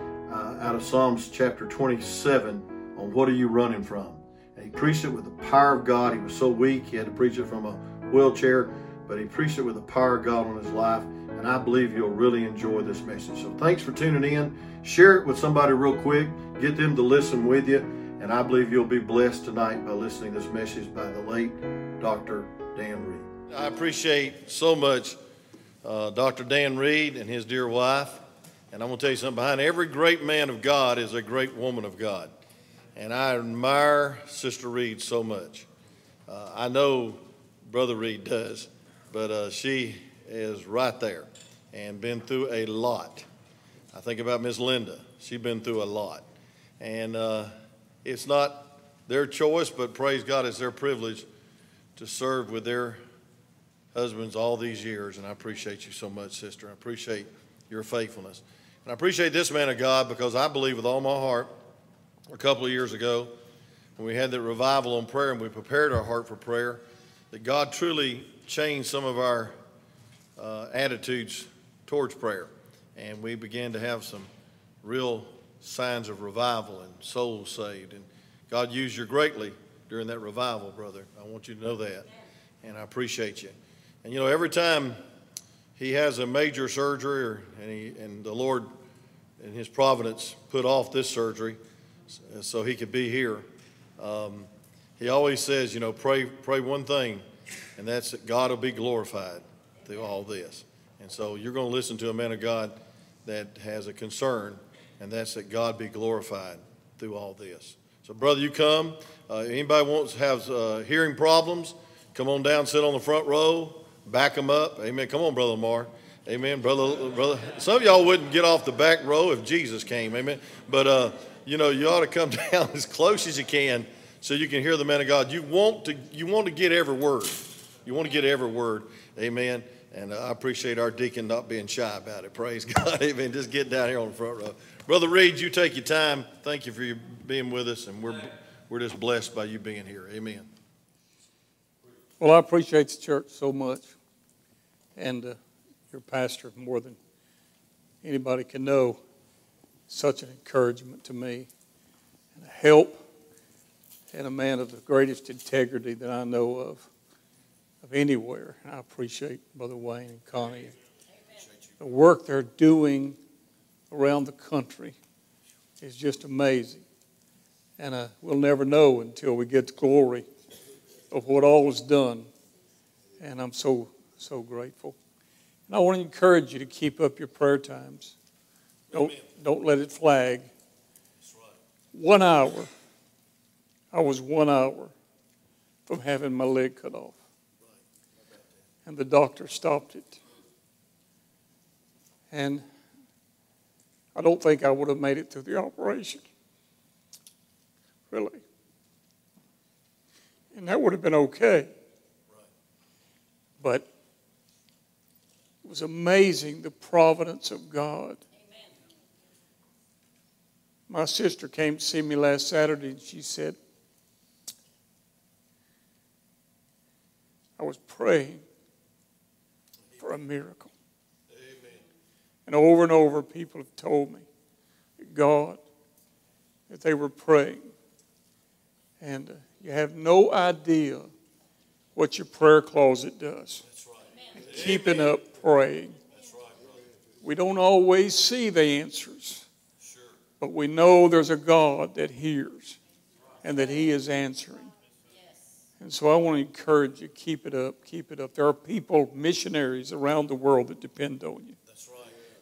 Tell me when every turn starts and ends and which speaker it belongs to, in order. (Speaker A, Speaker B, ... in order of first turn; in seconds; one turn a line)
Speaker A: 0.3-25.2
Speaker A: 25.8-32.3
Speaker A: 33.0-35.7
Speaker A: 36.3-43.3
Speaker A: 43.9-46.2
Speaker A: 46.8-47.5
Speaker A: 48.0-51.3
Speaker A: 52.0-53.0
Speaker A: 53.9-61.5
Speaker A: 62.3-63.3
Speaker A: 64.0-69.5
Speaker A: 70.4-74.3
Speaker A: 74.8-85.0
Speaker A: 85.8-88.7
Speaker A: 89.4-97.2
Speaker A: 97.8-140.5
Speaker B: 142.2-144.0
Speaker B: 145.0-145.4
Speaker B: 145.9-147.0
Speaker B: 148.0-149.0
Speaker B: 149.9-151.5
Speaker B: 152.3-153.0
Speaker B: 154.1-156.9
Speaker B: 157.8-160.7
Speaker B: 161.8-163.2
Speaker B: 163.9-165.0
Speaker B: 165.8-166.8
Speaker B: 167.8-170.3
Speaker B: 171.1-172.3
Speaker B: 173.2-175.0
Speaker B: 175.7-178.2
Speaker A: 178.9-179.2
Speaker B: 178.9-180.5
Speaker A: 181.2-181.6
Speaker B: 181.9-182.7
Speaker B: 183.9-184.9
Speaker B: 185.9-187.2
Speaker B: 188.9-190.2
Speaker B: 192.3-192.6
Speaker B: 194.2-196.3
Speaker B: 198.1-198.4
Speaker B: 200.5-201.7
Speaker B: 203.6-203.9
Speaker B: 205.6-208.2
Speaker B: 210.9-213.6
Speaker B: 217.6-218.4
Speaker B: 220.0-220.7
Speaker A: 221.3-221.8
Speaker B: 222.5-224.3
Speaker B: 225.0-225.6
Speaker B: 226.7-227.7
Speaker B: 229.0-231.1
Speaker B: 232.0-233.6
Speaker A: 233.7-235.2
Speaker B: 234.3-236.0
Speaker A: 236.1-236.8
Speaker B: 237.2-239.5
Speaker A: 239.8-240.2
Speaker B: 240.4-242.8
Speaker B: 243.4-244.7
Speaker B: 245.8-251.6
Speaker A: 251.7-252.2